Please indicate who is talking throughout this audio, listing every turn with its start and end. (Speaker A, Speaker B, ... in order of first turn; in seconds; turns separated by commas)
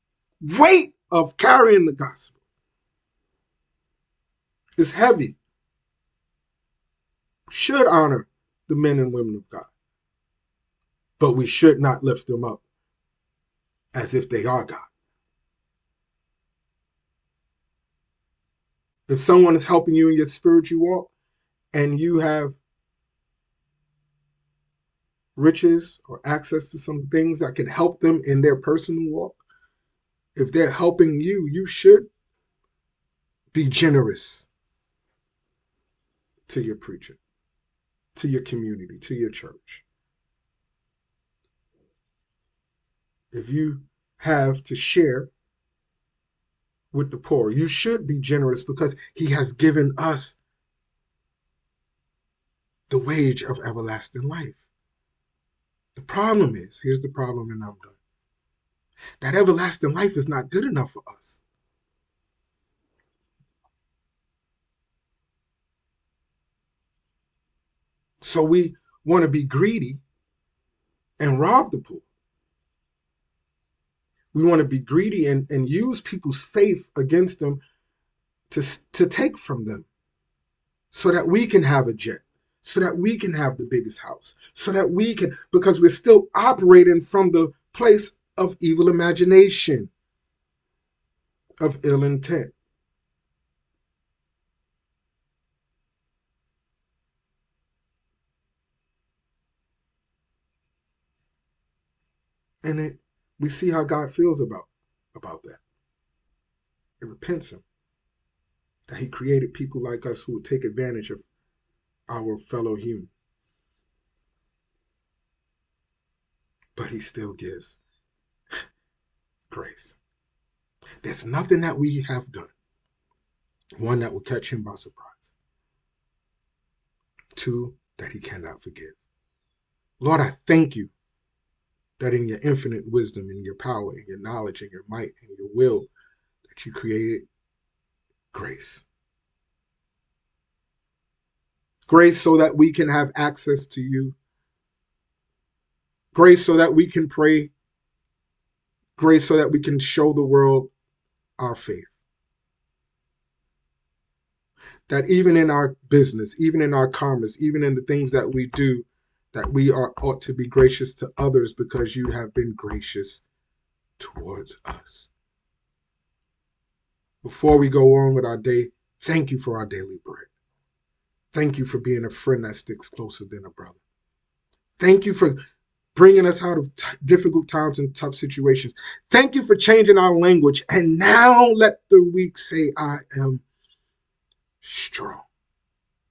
Speaker A: 0.4-2.3, Speaker A: 4.8-5.3, Speaker A: 7.5-9.7, Speaker A: 11.2-12.6, Speaker A: 13.9-14.8, Speaker A: 19.1-21.1, Speaker A: 21.7-22.6, Speaker A: 25.4-29.4, Speaker A: 30.4-32.1, Speaker A: 33.5-34.5, Speaker A: 36.5-37.2, Speaker A: 38.1-39.8, Speaker A: 43.3-45.3, Speaker A: 46.9-50.4, Speaker A: 52.9-54.6, Speaker A: 55.9-58.0, Speaker A: 59.2-61.4, Speaker A: 68.2-70.0, Speaker A: 71.2-72.0, Speaker A: 74.3-77.6, Speaker A: 78.5-79.9, Speaker A: 80.9-89.9, Speaker A: 91.6-92.5, Speaker A: 102.6-105.6, Speaker A: 107.0-107.6, Speaker A: 108.9-111.2, Speaker A: 112.1-113.1, Speaker A: 116.8-117.8, Speaker A: 119.5-120.0, Speaker A: 121.0-122.5, Speaker A: 123.8-125.3, Speaker A: 127.3-128.9, Speaker A: 130.0-130.9, Speaker A: 132.0-135.9, Speaker A: 136.5-137.2, Speaker A: 138.3-138.8, Speaker A: 141.9-144.1, Speaker A: 146.1-147.5, Speaker A: 149.0-150.7, Speaker A: 151.4-151.9, Speaker A: 154.9-163.2, Speaker A: 164.0-165.1, Speaker A: 167.2-170.3, Speaker A: 171.3-173.8, Speaker A: 174.8-175.4, Speaker A: 175.9-183.4, Speaker A: 184.6-185.2